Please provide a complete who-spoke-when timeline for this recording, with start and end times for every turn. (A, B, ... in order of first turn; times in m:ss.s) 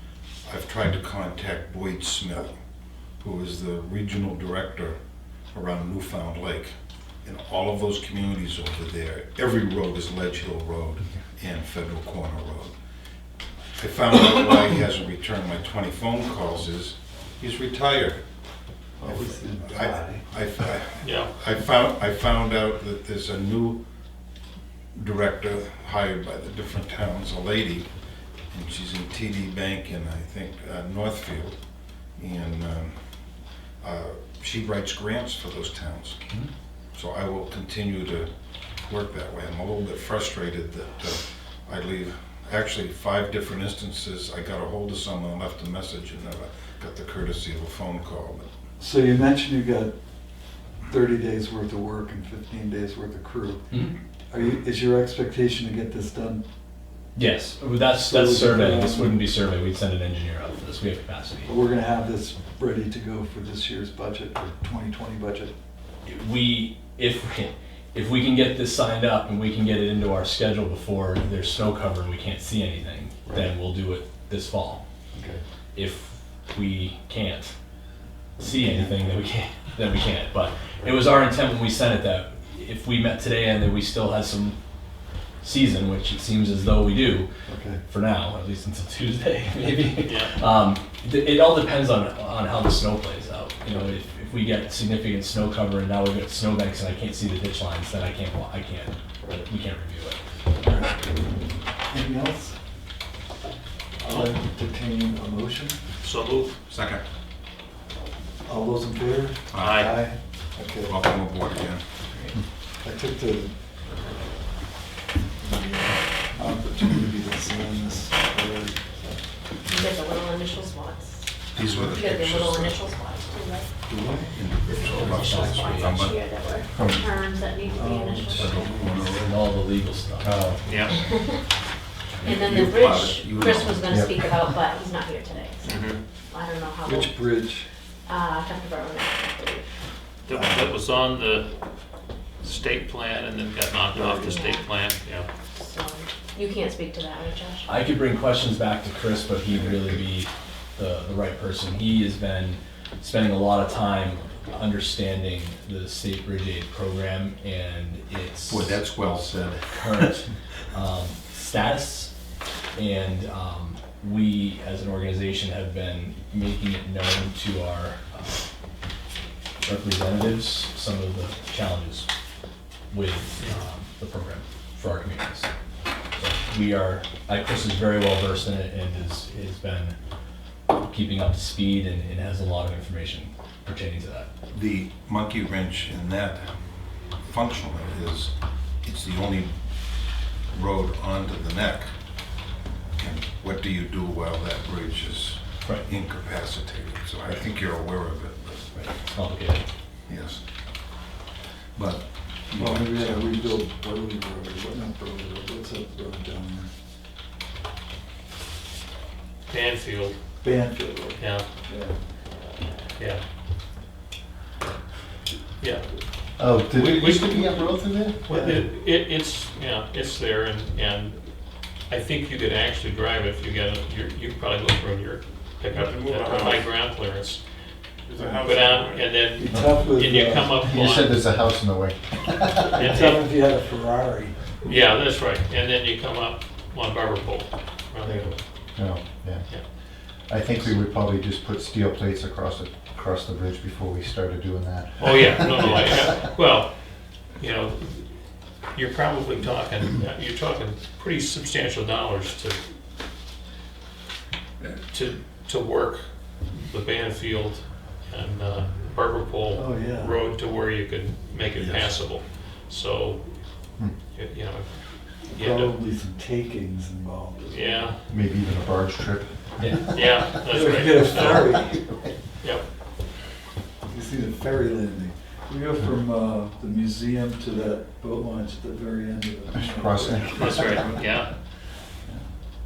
0:00.4-0:02.6 A
0:03.2-0:05.0 A
0:05.5-0:06.7 A
0:07.2-0:12.7 A
0:13.8-0:18.2 A
0:19.0-0:20.2 B
0:19.0-0:23.8 A
0:21.0-0:21.3 C
0:25.0-0:27.9 A
0:28.5-0:31.6 A
0:32.2-0:33.0 A
0:33.8-0:36.2 A
0:37.0-0:38.3 A
0:38.8-0:48.5 A
0:48.8-0:49.9 B
0:50.9-0:53.6 B
0:53.7-0:54.0 D
0:54.3-0:56.4 B
0:57.2-1:01.6 D
0:58.0-0:59.2 B
1:01.5-1:05.5 B
1:06.1-1:14.8 D
1:15.2-1:15.4 B
1:15.8-1:17.5 D
1:18.4-1:24.6 D
1:25.4-1:27.3 D
1:27.5-1:27.8 B
1:27.9-1:40.2 D
1:30.0-1:30.3 C
1:40.6-1:41.2 B
1:41.9-1:42.6 B
1:44.0-1:45.8 B
1:46.0-1:46.6 C
1:46.7-1:47.0 A
1:48.4-1:51.0 B
1:49.5-1:50.0 A
1:49.6-1:50.0 C
1:50.8-1:51.8 A
1:52.8-1:53.6 B
1:55.4-1:59.3 B
1:59.7-2:01.3 E
2:01.5-2:02.8 A
2:01.9-2:03.7 E
2:03.9-2:04.3 B
2:04.3-2:06.2 A
2:04.8-2:05.2 C
2:04.8-2:09.1 E
2:05.2-2:06.1 D
2:06.7-2:07.1 F
2:07.7-2:08.8 B
2:08.4-2:09.4 A
2:09.1-2:10.3 D
2:10.2-2:10.8 F
2:10.6-2:11.0 C
2:10.9-2:11.4 E
2:12.2-2:13.9 A
2:12.2-2:17.2 E
2:13.9-2:14.3 F
2:15.6-2:16.0 C
2:16.8-2:17.7 B
2:18.1-2:19.7 E
2:20.2-2:21.5 C
2:20.4-2:20.6 B
2:22.4-2:25.3 C
2:24.1-2:24.7 E
2:25.6-2:27.7 E
2:27.7-2:38.8 D
2:38.5-2:40.0 A
2:39.7-2:42.1 D
2:42.8-2:48.5 D
2:49.6-2:52.1 D
2:52.9-2:55.5 D
2:56.2-3:00.0 D
3:00.7-3:04.3 D
3:04.5-3:06.5 A
3:07.2-3:09.5 A
3:10.5-3:11.9 A
3:13.0-3:18.8 A
3:18.7-3:19.6 D
3:20.1-3:20.4 A
3:21.8-3:23.5 A
3:22.6-3:26.7 B
3:29.5-3:30.2 C
3:30.4-3:32.0 B
3:31.2-3:31.5 C
3:35.6-3:35.8 C
3:36.4-3:38.2 F
3:36.8-3:41.2 C
3:38.3-3:38.6 B
3:41.9-3:47.4 C
3:45.7-3:46.7 G
3:48.1-3:49.1 G
3:48.4-3:51.2 C
3:49.4-3:50.5 B
3:50.6-3:52.9 F
3:52.8-3:53.3 C
3:52.8-3:54.4 B
3:54.6-3:58.3 C
3:58.1-3:59.5 F
4:00.3-4:06.3 F
4:05.0-4:06.7 C
4:07.4-4:08.2 C
4:08.7-4:12.6 C
4:14.9-4:23.3 C
4:19.6-4:20.2 B
4:21.6-4:21.9 A
4:24.2-4:24.7 C
4:25.3-4:25.8 C
4:25.3-4:27.8 B
4:27.5-4:28.0 C
4:28.1-4:30.0 F
4:29.6-4:29.9 D
4:29.9-4:31.6 C
4:30.5-4:31.8 B
4:33.8-4:41.0 B
4:39.6-4:40.7 F
4:40.3-4:41.3 C